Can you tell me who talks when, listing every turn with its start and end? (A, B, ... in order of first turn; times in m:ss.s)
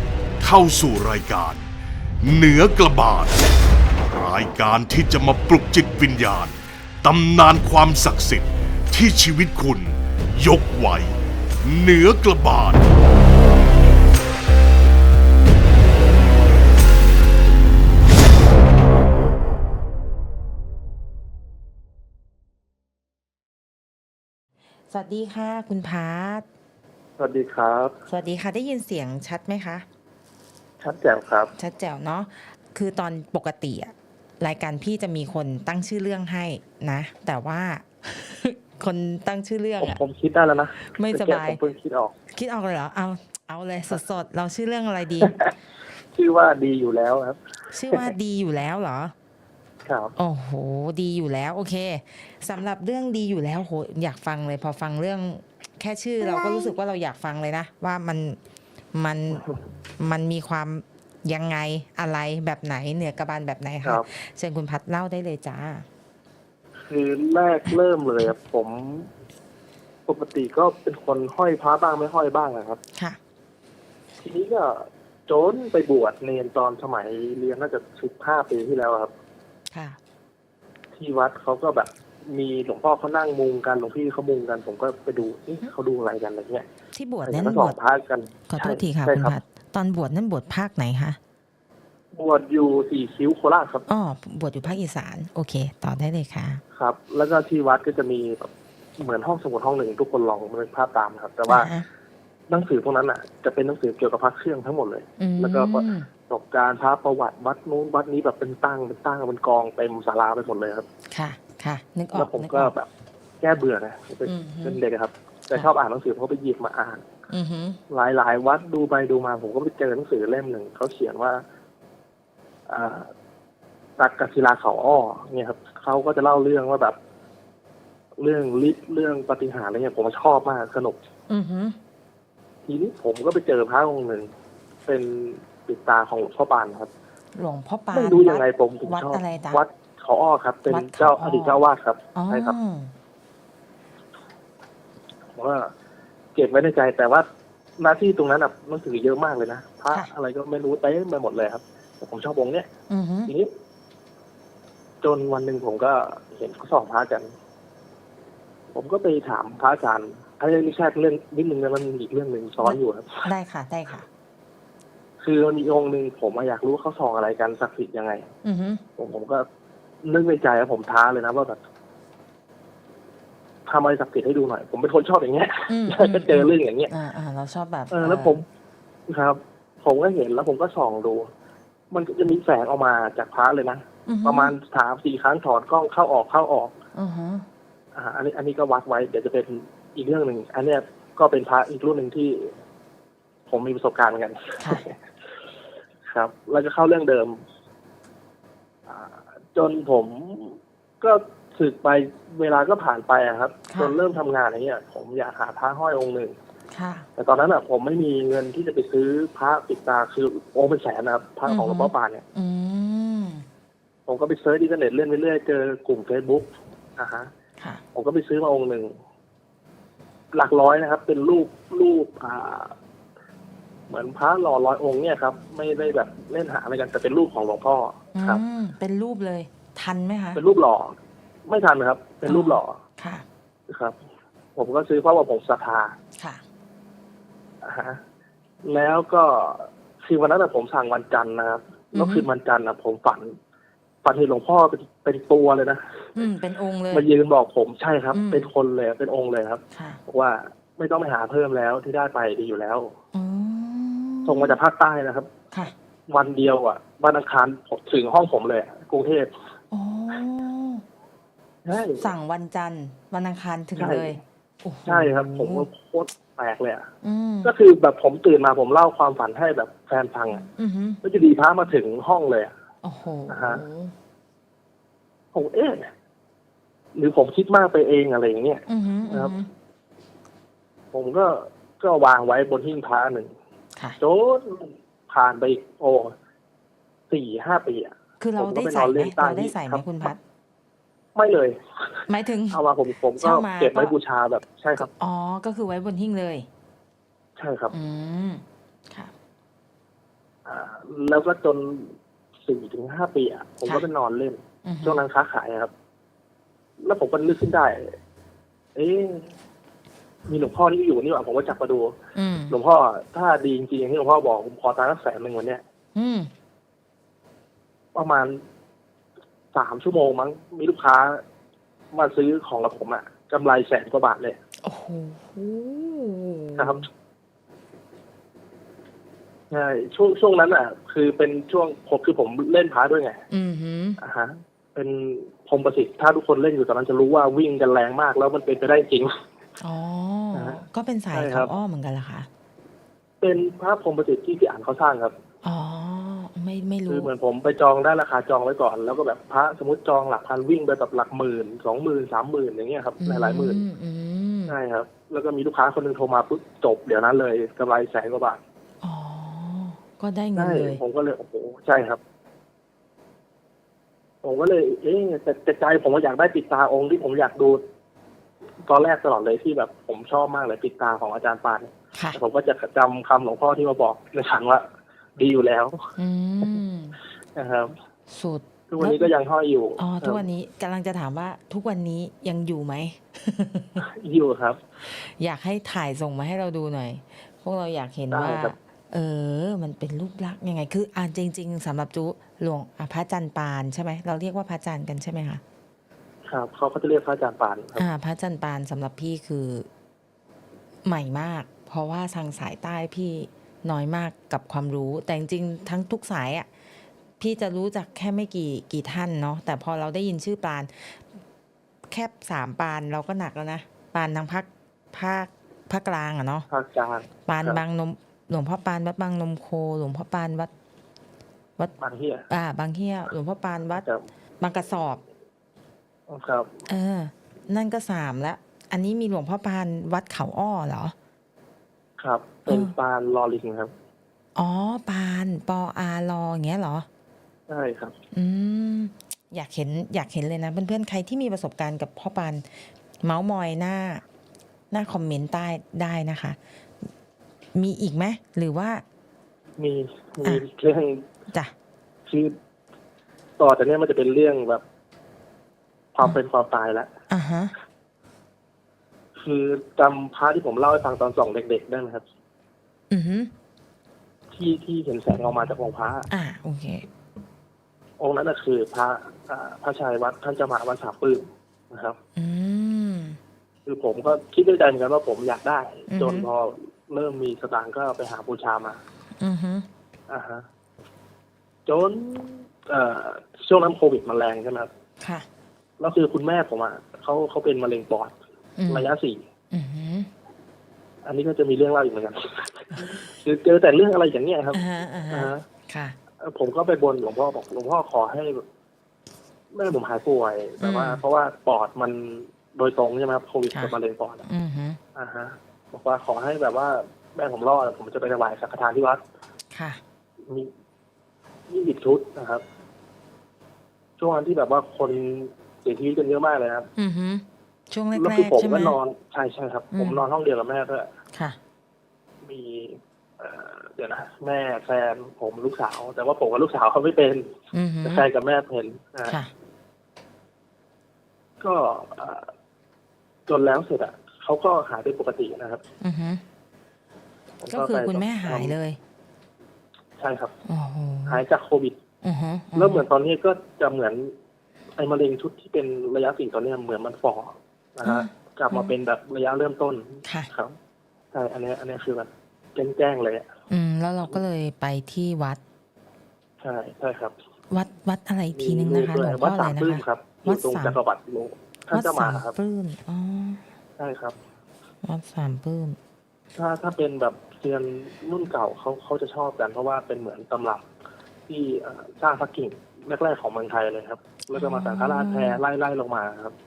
0:00.4-0:01.6 A
0:02.2-0:03.4 A
0:04.0-0:12.8 A
0:24.9-0:26.4 B
0:27.2-0:28.0 C
0:28.1-0:29.8 B
0:30.8-0:31.5 C
0:31.6-0:40.0 B
0:39.8-0:42.1 C
0:40.9-0:41.6 B
0:42.3-0:45.4 B
0:45.2-0:45.5 C
0:46.1-0:48.1 C
0:47.7-0:49.1 B
0:49.8-0:50.1 C
0:50.2-0:58.4 B
0:58.9-0:59.4 B
1:00.0-1:05.8 B
1:06.8-1:09.1 C
1:10.1-1:12.8 C
1:14.2-1:19.1 C
1:19.7-1:20.0 B
1:20.9-1:26.6 C
1:26.9-1:27.8 B
1:27.2-1:29.4 C
1:28.5-1:31.2 B
1:32.1-1:33.9 C
1:33.9-1:36.6 B
1:36.7-1:41.7 C
1:41.5-1:41.8 B
1:42.5-1:50.9 C
1:45.2-1:46.1 B
1:51.1-1:52.7 B
1:52.1-1:52.9 C
1:53.4-1:57.0 C
1:54.2-1:54.8 B
1:57.3-1:57.8 B
1:57.9-2:01.4 C
2:02.7-2:03.1 C
2:04.0-2:07.0 C
2:08.2-2:11.0 C
2:11.3-2:11.8 B
2:12.6-2:14.3 C
2:14.8-2:16.9 C
2:17.3-2:19.6 B
2:17.9-2:22.6 C
2:20.7-2:21.6 B
2:22.1-2:22.9 B
2:25.3-2:25.7 C
2:26.3-2:27.2 C
2:27.8-2:32.7 C
2:32.9-2:33.3 B
2:33.2-2:33.5 C
2:35.0-2:37.3 C
2:38.7-2:43.3 C
2:42.6-2:44.1 B
2:45.2-2:48.3 C
2:48.4-2:48.8 B
2:49.0-2:49.5 C
2:50.0-2:51.6 C
2:53.6-2:56.9 C
2:55.7-2:58.4 B
2:57.9-2:58.4 C
2:59.1-3:01.3 C
3:01.9-3:06.8 C
3:04.0-3:04.6 B
3:06.9-3:07.4 B
3:07.9-3:12.5 C
3:13.5-3:15.0 C
3:16.0-3:17.4 C
3:18.9-3:26.3 C
3:23.7-3:24.0 B
3:26.7-3:27.0 B
3:27.2-3:32.2 C
3:31.4-3:33.4 B
3:34.1-3:37.3 C
3:37.9-3:38.9 C
3:40.3-3:42.8 C
3:43.9-3:48.4 C
3:48.1-3:50.4 B
3:50.3-3:51.0 C
3:51.5-3:52.8 C
3:52.2-3:53.2 B
3:53.7-3:54.0 C
3:54.6-3:56.0 C
3:56.2-3:56.4 B
3:57.6-3:58.0 C
3:58.6-4:03.4 C
4:01.9-4:02.3 B
4:04.0-4:06.1 C
4:06.1-4:07.1 B
4:06.9-4:12.9 C
4:08.1-4:08.5 B
4:09.7-4:10.0 B
4:13.1-4:14.6 B
4:14.2-4:15.3 C
4:16.1-4:19.3 C
4:19.7-4:20.8 B
4:21.6-4:22.1 C
4:22.0-4:25.7 B
4:23.8-4:24.1 C
4:24.8-4:26.9 C
4:27.0-4:27.5 B
4:27.4-4:30.5 C
4:30.5-4:31.0 B
4:31.0-4:32.5 C
4:32.8-4:33.9 B
4:33.3-4:33.6 C
4:35.3-4:35.9 C
4:36.9-4:39.3 C
4:38.7-4:39.5 B
4:40.9-4:43.3 C
4:44.0-4:46.1 C
4:47.1-4:50.1 C
4:48.2-4:50.2 B
4:51.1-4:54.9 C
4:52.1-4:52.6 B
4:53.2-4:53.9 B
4:54.8-4:56.5 B
4:57.4-4:57.7 C
4:57.7-4:59.1 B
5:00.4-5:05.7 C
5:04.6-5:05.0 B
5:06.8-5:08.0 C
5:08.7-5:09.3 C
5:10.3-5:12.0 C
5:12.1-5:12.6 B
5:12.5-5:15.6 C
5:15.9-5:16.3 B
5:17.9-5:18.4 C
5:19.5-5:21.2 C
5:21.9-5:24.4 C
5:24.6-5:26.8 B
5:26.6-5:26.8 C
5:29.5-5:33.2 C
5:33.3-5:34.0 B
5:34.0-5:39.1 C
5:39.6-5:42.3 B
5:40.3-5:41.5 C
5:43.2-5:45.1 C
5:45.4-5:47.1 B
5:46.9-5:53.6 C
5:53.0-5:54.6 B
5:54.5-5:58.4 C
5:58.8-6:00.8 B
6:00.3-6:02.0 C
6:04.2-6:07.6 C
6:08.6-6:14.6 C
6:11.9-6:12.2 B
6:15.2-6:15.9 C
6:16.0-6:17.0 B
6:17.3-6:17.7 C
6:18.1-6:19.1 B
6:18.7-6:20.2 C
6:19.8-6:23.8 B
6:23.8-6:24.6 C
6:24.8-6:35.4 B
6:28.1-6:28.6 C
6:36.2-6:37.9 C
6:37.8-6:39.7 B
6:40.8-6:46.5 B
6:47.2-6:51.0 B
6:51.9-6:56.5 B
6:56.5-6:57.6 C
6:57.2-7:00.5 B
7:01.8-7:02.3 C
7:02.3-7:03.8 B
7:03.7-7:04.1 C
7:04.4-7:05.0 B
7:06.1-7:06.6 C
7:06.7-7:10.9 B
7:12.0-7:13.7 C
7:12.5-7:12.7 B
7:14.4-7:16.9 B
7:17.5-7:18.0 C
7:18.1-7:24.0 B
7:24.7-7:26.4 B
7:27.5-7:28.8 B
7:29.6-7:31.1 C
7:32.0-7:32.4 C
7:33.4-7:34.6 C
7:35.9-7:36.9 C
7:37.1-7:37.5 B
7:39.2-7:42.0 C
7:42.9-7:43.3 B
7:44.3-7:46.1 C
7:46.1-7:46.9 B
7:48.0-7:52.0 C
7:52.2-7:53.2 B
7:53.6-7:58.8 C
7:55.9-7:56.3 B
7:59.2-7:59.7 B
8:00.1-8:00.4 C
8:01.6-8:04.7 C
8:05.0-8:05.2 B
8:05.8-8:08.1 C
8:08.6-8:08.9 B
8:08.7-8:09.2 C
8:09.5-8:10.1 B
8:11.0-8:15.4 C
8:14.5-8:16.0 B
8:16.2-8:18.4 C
8:19.5-8:24.2 C
8:20.6-8:21.0 B
8:23.5-8:24.8 B
8:24.9-8:29.0 C
8:29.5-8:29.8 B
8:31.5-8:32.4 C
8:34.0-8:36.7 C
8:36.8-8:38.8 B
8:37.9-8:40.9 C
8:39.7-8:40.0 B
8:42.2-8:49.2 C
8:47.5-8:48.1 B
8:49.0-8:49.3 B
8:51.4-8:52.3 C
8:53.3-8:55.6 C
8:55.8-8:56.2 B
8:57.4-8:58.6 C
8:57.5-8:58.8 B
9:00.0-9:00.3 C
9:00.4-9:01.2 B
9:01.1-9:01.8 C
9:02.0-9:02.8 B
9:02.5-9:04.1 C
9:04.8-9:10.6 C
9:07.8-9:08.7 B
9:11.1-9:13.3 C
9:13.5-9:15.4 B
9:16.4-9:17.1 C
9:17.5-9:20.8 B
9:18.3-9:22.3 C
9:21.7-9:23.4 B
9:23.8-9:24.2 C
9:24.8-9:25.8 B
9:26.4-9:30.6 C
9:31.3-9:36.3 C
9:34.3-9:35.4 B